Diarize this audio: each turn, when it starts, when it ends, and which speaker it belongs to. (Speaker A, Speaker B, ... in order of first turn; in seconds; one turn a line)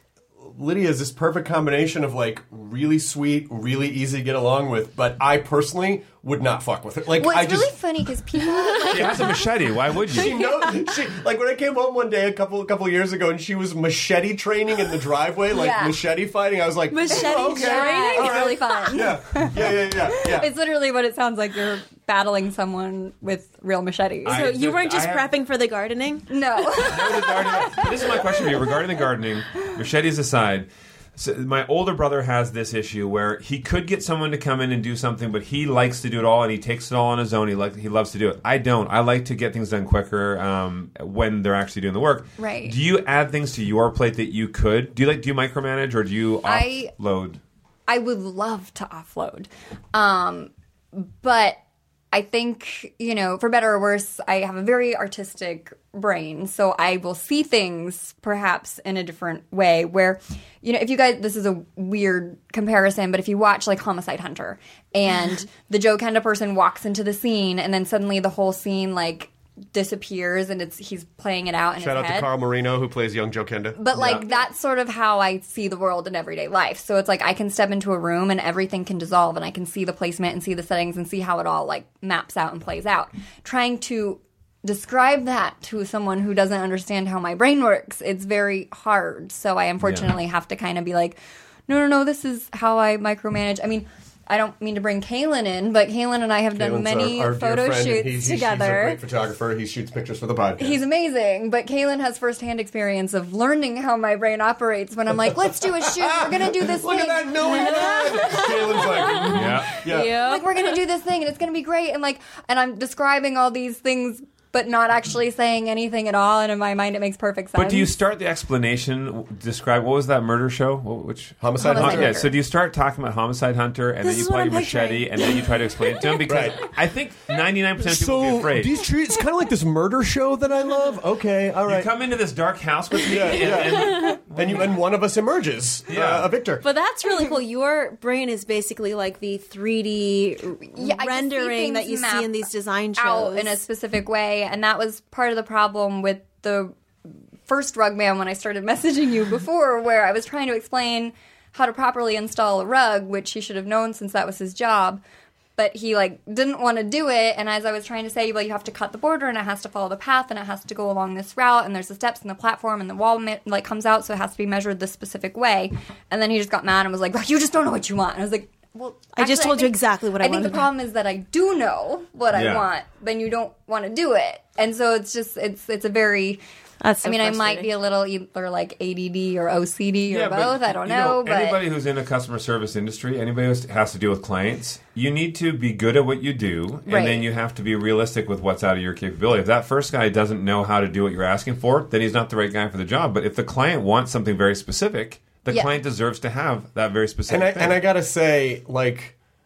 Speaker A: 0.4-7.8
Speaker B: 7.2-9.4
Speaker C: 8.4-9.3
Speaker D: 8.9-10.4
Speaker A: 10.1-20.5
Speaker C: 10.2-10.9
Speaker B: 15.5-16.0
Speaker C: 16.9-18.7
Speaker B: 17.1-24.4
Speaker D: 24.2-25.3
Speaker C: 24.3-26.3
Speaker B: 26.3-28.5
Speaker D: 26.9-47.4
Speaker B: 42.4-42.8
Speaker B: 46.5-46.9
Speaker B: 47.9-51.6
Speaker B: 52.1-72.3
Speaker A: 71.8-73.8
Speaker B: 73.8-99.0
Speaker D: 73.9-74.2
Speaker D: 89.8-90.1
Speaker A: 96.5-100.8
Speaker B: 100.6-109.4
Speaker A: 105.8-110.2
Speaker C: 107.5-108.5
Speaker C: 109.0-109.3
Speaker D: 109.3-109.8
Speaker C: 109.9-110.8
Speaker B: 110.1-117.9
Speaker D: 117.6-128.7
Speaker A: 121.4-122.2
Speaker B: 121.6-122.3
Speaker C: 124.0-126.2
Speaker A: 126.3-126.7
Speaker A: 127.8-131.9
Speaker D: 131.7-134.8
Speaker A: 133.1-136.6
Speaker C: 133.7-134.2
Speaker D: 135.9-136.3
Speaker C: 136.6-143.6
Speaker B: 140.8-146.8
Speaker B: 147.5-155.0
Speaker B: 155.6-176.4
Speaker C: 169.2-170.7
Speaker D: 172.3-172.7
Speaker C: 176.8-177.7
Speaker B: 177.0-181.6
Speaker D: 180.1-197.8
Speaker B: 186.9-187.2
Speaker A: 197.3-199.2